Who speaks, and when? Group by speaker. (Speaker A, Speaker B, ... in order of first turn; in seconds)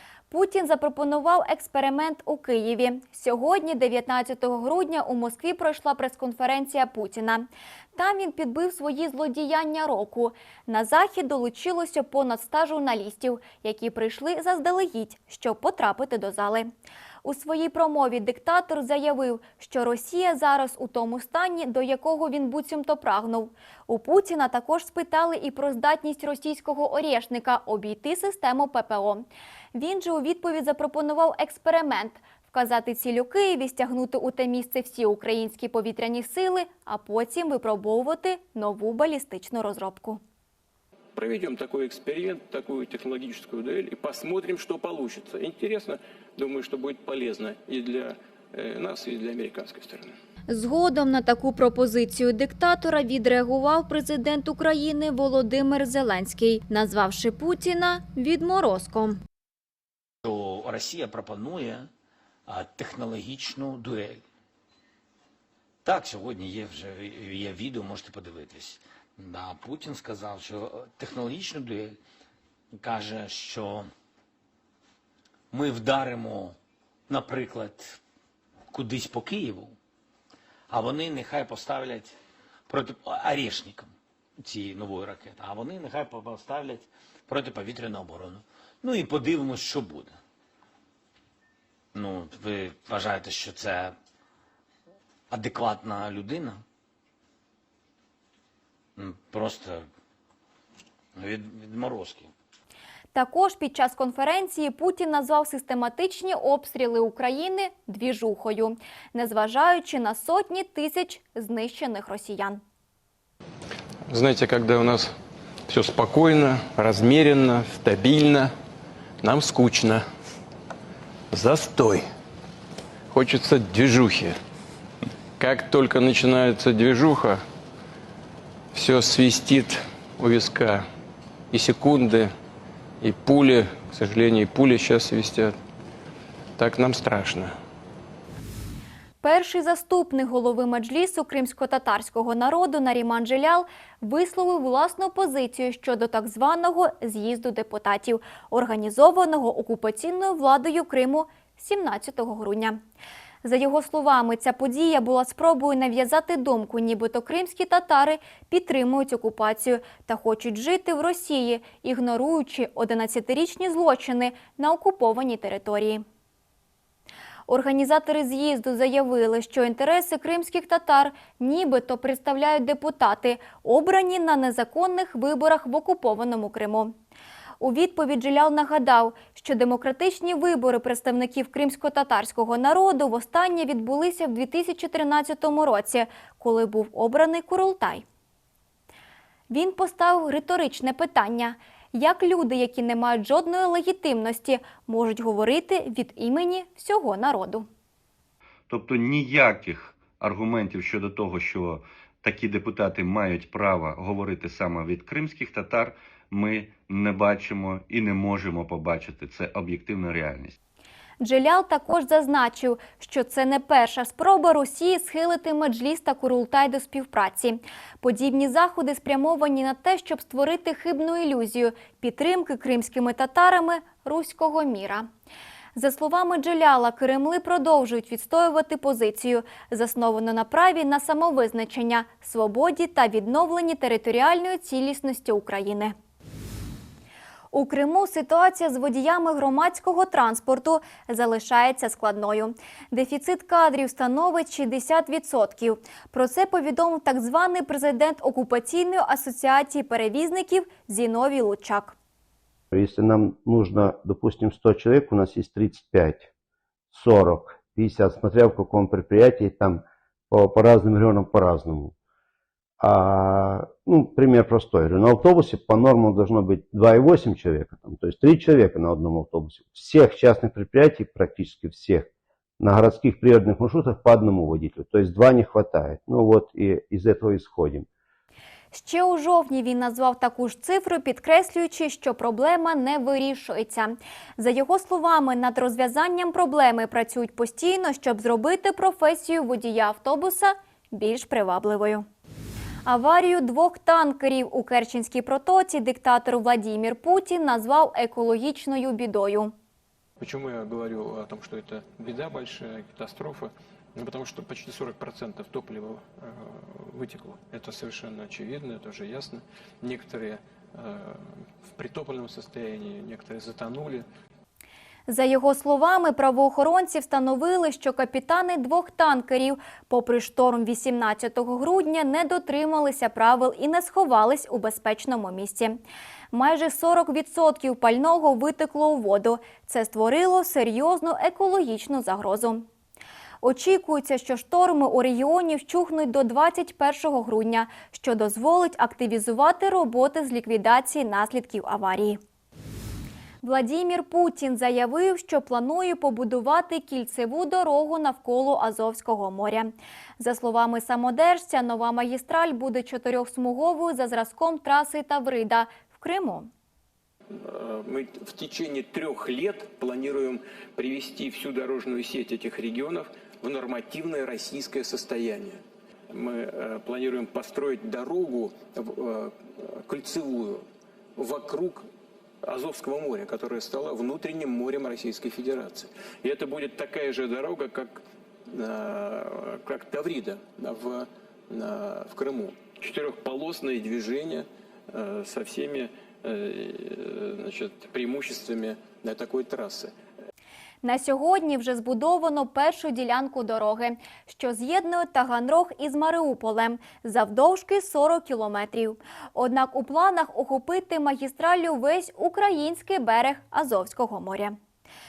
Speaker A: 0.3-16.7, 17.2-40.2, 50.5-59.2, 103.1-112.6, 139.2-152.8, 153.4-166.0, 167.5-176.9, 177.6-188.0, 189.5-197.7, 211.2-225.1, 225.7-235.9, 237.5-251.9, 278.7-292.1, 292.8-299.5, 315.1-325.8, 326.3-332.6, 333.4-342.2, 343.4-356.5, 390.8-404.5
Speaker B: 41.1-50.1, 300.2-314.1, 357.3-365.6, 366.1-370.6, 371.1-371.9, 372.4-389.9
Speaker C: 60.2-61.9, 62.5-64.2, 65.8-72.0, 72.7-73.9, 75.5-76.5, 77.1-78.0, 78.7-79.7, 80.7-82.1, 82.7-90.2, 91.9-93.9, 95.3-96.6, 99.0-99.8, 101.2-102.3
Speaker D: 114.1-115.1, 115.7-118.5, 119.2-120.0, 121.3-122.0, 123.1-124.4, 125.4-127.4, 128.7-130.8, 131.5-132.3, 133.0-135.5, 136.6-137.5
Speaker E: 198.7-210.6
Speaker F: 252.7-256.3, 256.9-261.9, 262.8-272.1, 272.6-277.9